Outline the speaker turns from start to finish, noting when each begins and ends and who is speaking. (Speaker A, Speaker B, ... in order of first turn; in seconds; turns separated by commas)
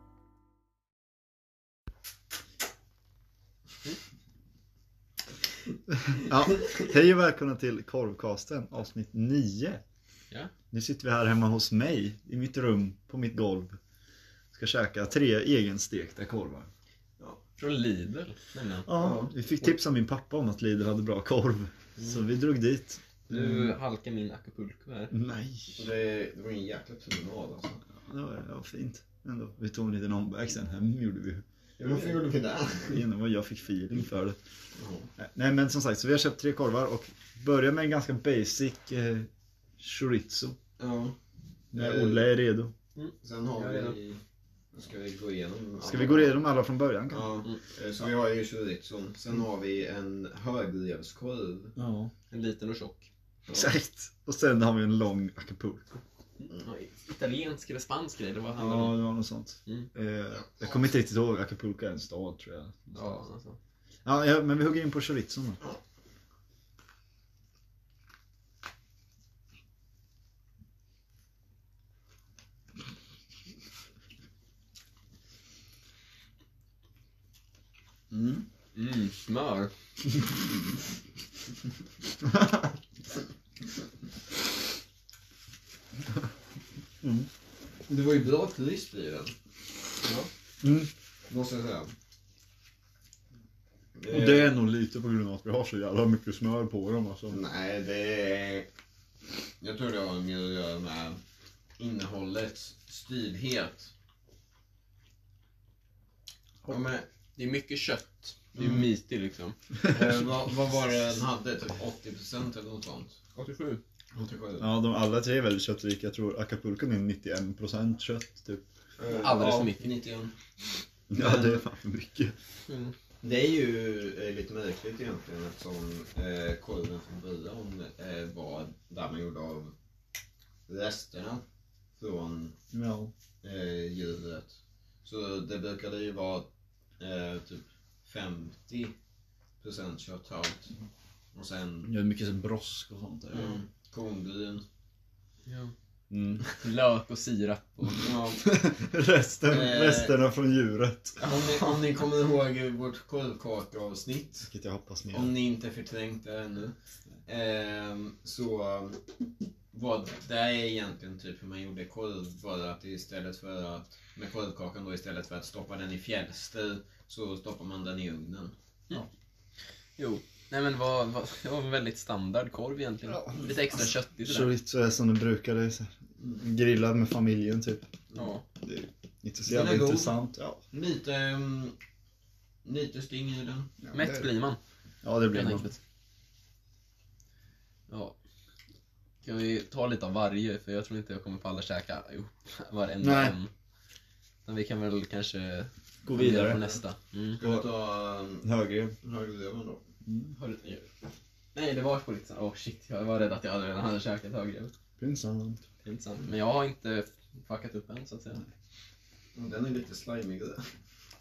Speaker A: 5.9-9.8, Speaker A: 10.7-13.8, Speaker A: 14.5-16.7, Speaker B: 17.6-18.9, Speaker A: 18.9-23.7, Speaker C: 18.9-19.3, Speaker B: 23.3-25.1, Speaker A: 25.1-25.8, Speaker C: 25.8-27.8, Speaker A: 28.0-31.4, Speaker C: 31.8-33.0, Speaker A: 32.9-34.4, Speaker C: 34.8-35.1, Speaker A: 35.2-40.6, Speaker C: 40.8-41.1, Speaker C: 41.7-42.3, Speaker A: 41.7-42.7, Speaker B: 43.0-44.0, Speaker C: 43.2-44.2, Speaker C: 44.8-46.4, Speaker A: 45.8-47.4, Speaker C: 47.1-51.7, Speaker A: 51.8-52.1, Speaker B: 52.3-53.1, Speaker A: 53.5-56.0, Speaker B: 56.4-59.0, Speaker A: 58.6-63.1, Speaker B: 62.9-63.6, Speaker A: 64.0-65.6, Speaker C: 78.1-78.4, Speaker B: 78.7-79.7, Speaker A: 82.2-82.7, Speaker A: 87.0-87.3, Speaker C: 87.9-89.3, Speaker B: 90.0-90.3, Speaker A: 90.6-90.9, Speaker C: 91.3-91.9, Speaker C: 94.0-94.5, Speaker A: 94.1-97.4, Speaker C: 97.3-98.7, Speaker C: 99.6-101.2, Speaker C: 101.8-103.9, Speaker C: 106.7-107.0, Speaker B: 107.3-109.5, Speaker C: 108.5-108.8, Speaker C: 109.8-113.4, Speaker B: 113.4-113.8, Speaker C: 114.1-114.7, Speaker A: 114.6-118.6, Speaker C: 119.0-120.3, Speaker B: 119.1-119.9, Speaker A: 121.1-122.3, Speaker C: 121.1-121.6, Speaker B: 122.7-122.9, Speaker C: 123.2-129.7, Speaker C: 130.7-131.4, Speaker C: 132.0-132.5, Speaker A: 132.7-133.1, Speaker C: 133.4-136.5, Speaker C: 137.0-138.9, Speaker C: 139.6-140.7, Speaker C: 141.3-141.9, Speaker A: 141.8-143.5, Speaker C: 143.3-144.6, Speaker B: 145.4-145.7, Speaker A: 146.1-146.4, Speaker B: 146.5-148.1, Speaker C: 148.0-148.4, Speaker A: 148.4-151.2, Speaker C: 149.5-150.1, Speaker C: 151.2-154.5, Speaker A: 154.5-155.3, Speaker C: 155.1-159.0, Speaker C: 159.7-168.5, Speaker B: 170.0-174.5, Speaker A: 173.1-173.4, Speaker A: 174.2-177.9, Speaker B: 178.1-178.4, Speaker A: 178.6-180.6, Speaker C: 179.4-180.2, Speaker C: 180.7-181.8, Speaker C: 182.6-183.7, Speaker A: 183.8-184.3, Speaker B: 183.9-184.6, Speaker A: 185.0-185.7, Speaker B: 185.3-185.8, Speaker B: 187.9-188.2, Speaker B: 189.2-193.5, Speaker A: 193.0-193.4, Speaker B: 194.4-197.4, Speaker A: 196.0-196.7, Speaker C: 197.4-198.4, Speaker A: 197.4-197.7, Speaker A: 198.4-199.0, Speaker C: 199.0-199.8, Speaker A: 200.1-200.3, Speaker B: 200.3-200.8, Speaker B: 201.5-204.7, Speaker A: 205.0-205.6, Speaker B: 205.8-208.4, Speaker C: 209.3-210.7